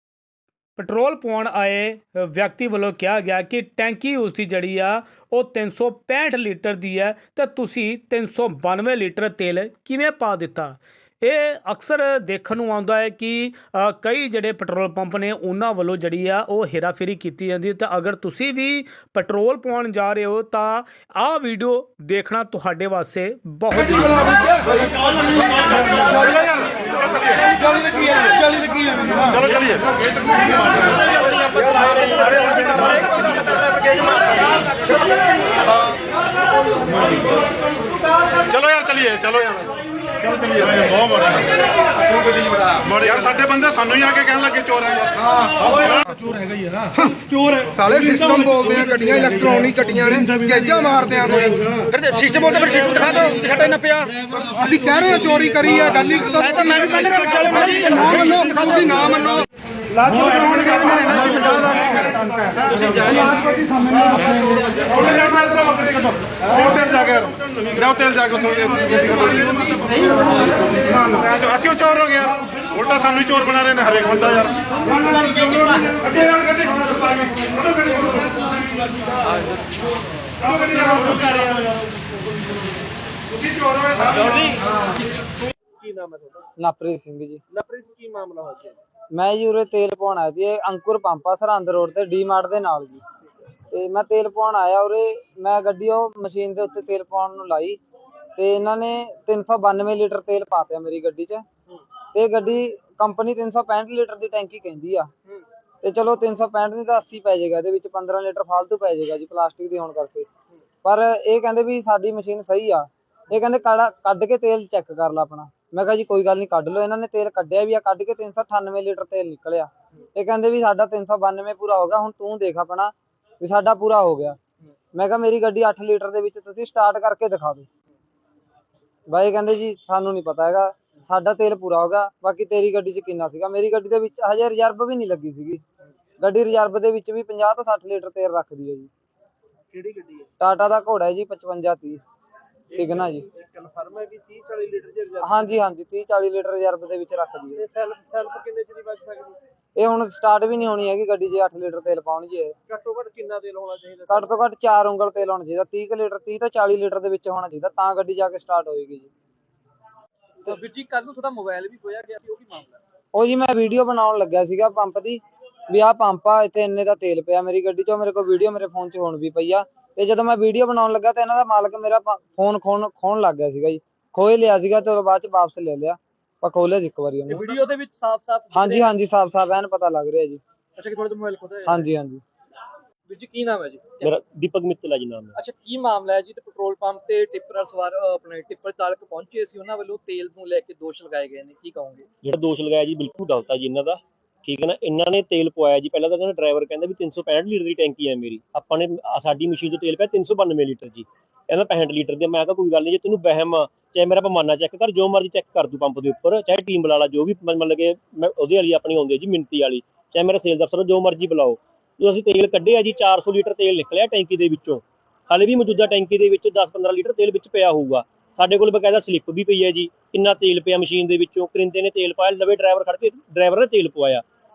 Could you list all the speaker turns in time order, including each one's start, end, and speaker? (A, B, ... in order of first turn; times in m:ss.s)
0:00.8-0:24.6 A
0:38.6-0:39.5 B
0:40.5-0:41.0 C
0:42.9-0:43.3 C
0:43.3-0:44.4 B
0:43.9-0:47.1 C
0:47.7-0:53.7 C
0:54.5-0:59.4 C
1:00.0-1:01.3 C
1:02.7-1:03.7 D
1:04.9-1:05.3 D
1:08.0-1:08.8 B
1:08.3-1:09.8 C
1:11.3-1:14.5 B
1:16.0-1:16.6 D
1:20.5-1:21.5 D
1:23.9-1:24.6 D
1:25.7-1:26.5 D
1:26.6-1:27.4 E
1:27.5-1:28.8 D
1:29.1-1:33.0 E
1:33.7-1:37.8 E
1:38.4-1:41.4 E
1:42.1-1:45.1 E
1:45.8-1:50.3 E
1:50.8-2:04.4 E
2:04.9-2:07.7 E
2:09.1-2:15.6 E
2:16.2-2:18.9 E
2:19.7-2:20.3 D
2:20.4-2:22.0 E
2:22.7-2:25.5 D
2:22.7-2:23.2 E
2:25.2-2:27.6 E
2:27.6-2:29.4 D
2:29.8-2:32.5 E
2:32.7-2:34.3 D
2:34.1-2:39.1 E
2:40.4-2:42.8 D
2:43.1-2:57.5 E
2:57.3-2:58.9 D
2:58.5-3:00.4 E
3:00.8-3:01.8 D
3:01.7-3:02.2 E
3:03.1-3:04.1 D
3:04.0-3:05.3 F
3:05.4-3:12.1 D
3:12.2-3:44.2 F